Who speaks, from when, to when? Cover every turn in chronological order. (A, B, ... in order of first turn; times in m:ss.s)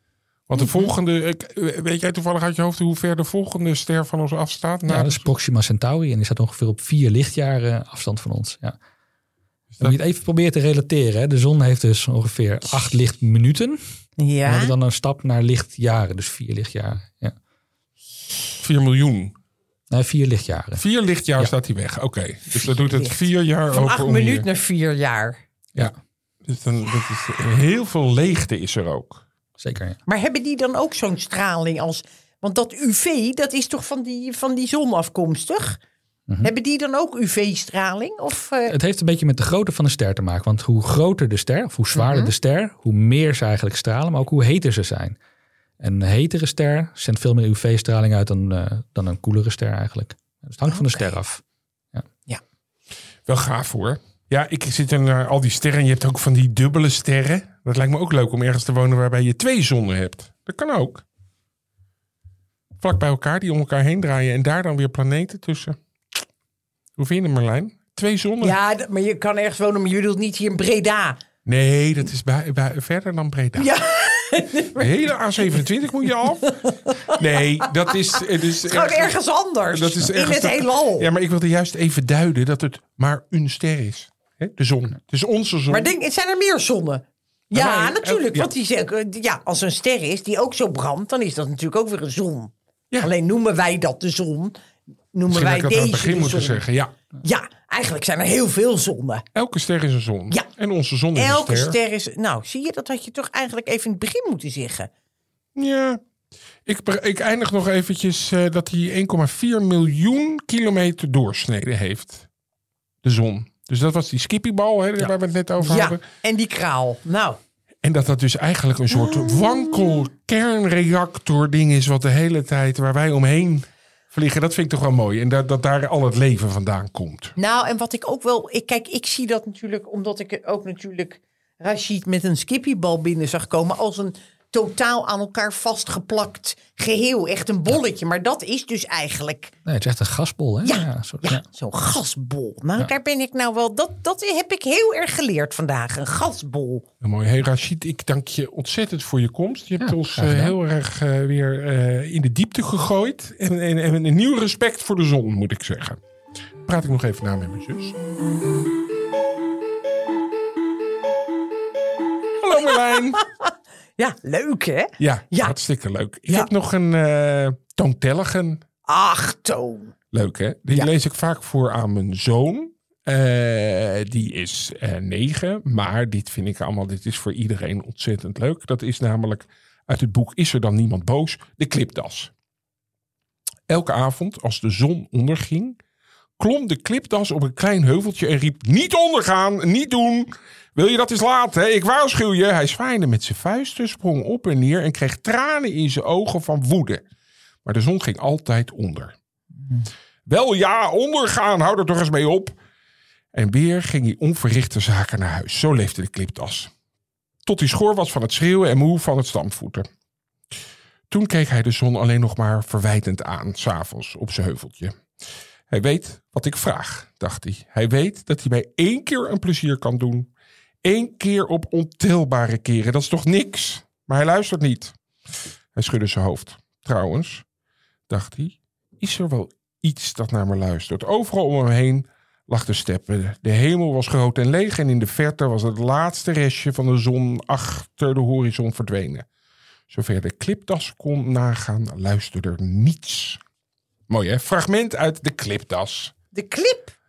0:00.5-0:05.3 A
0:04.9-0:08.8 B
0:09.7-0:10.0 A
0:09.8-0:13.8 B
0:14.2-0:14.7 C
0:14.4-0:17.3 B
0:18.6-0:19.3 A
0:19.9-0:20.8 B
0:20.8-0:24.4 A
0:22.8-0:23.2 C
0:23.7-0:25.4 C
0:25.7-0:29.2 A
0:29.6-0:30.0 B
0:30.1-0:35.8 C
0:36.4-0:38.7 C
0:38.7-0:45.2 B
0:41.9-0:42.3 C
0:45.8-0:51.4 B
0:50.7-0:51.1 C
0:53.2-1:01.0 A
1:02.8-1:05.8 A
1:07.0-1:08.6 A
1:08.4-1:11.2 C
1:11.4-1:13.7 A
1:13.6-1:15.6 C
1:14.8-1:19.2 A
1:16.4-1:17.2 C
1:17.8-1:21.1 C
1:19.7-1:25.9 A
1:25.7-1:34.6 C
1:27.5-1:28.5 A
1:35.1-1:36.6 C
1:35.3-1:37.0 A
1:37.2-1:39.2 C
1:39.3-1:41.8 A
1:41.1-1:44.9 C
1:45.6-1:46.0 A
1:46.6-1:52.3 A
1:53.0-1:56.0 A
1:55.6-1:57.4 C
1:57.8-2:07.4 A
2:07.4-2:19.5 C
2:19.6-2:21.4 B
2:20.6-2:26.8 C
2:27.0-2:36.0 A
2:29.8-2:30.5 B
2:36.6-2:38.0 A
2:42.4-2:43.2 A
2:42.7-2:45.5 C
2:45.0-2:48.6 A
2:48.8-2:49.9 C
2:50.1-3:02.3 A
3:03.7-3:05.8 A
3:06.4-3:17.0 A
3:17.6-3:19.2 A
3:20.2-3:22.6 A
3:23.3-3:26.7 A
3:27.4-3:29.9 A
3:31.1-3:35.0 A
3:35.7-3:40.3 A
3:40.8-3:45.0 A
3:45.7-3:47.4 A
3:48.1-3:59.2 A
3:59.9-4:03.4 A
4:04.1-4:06.1 A
4:06.3-4:06.9 C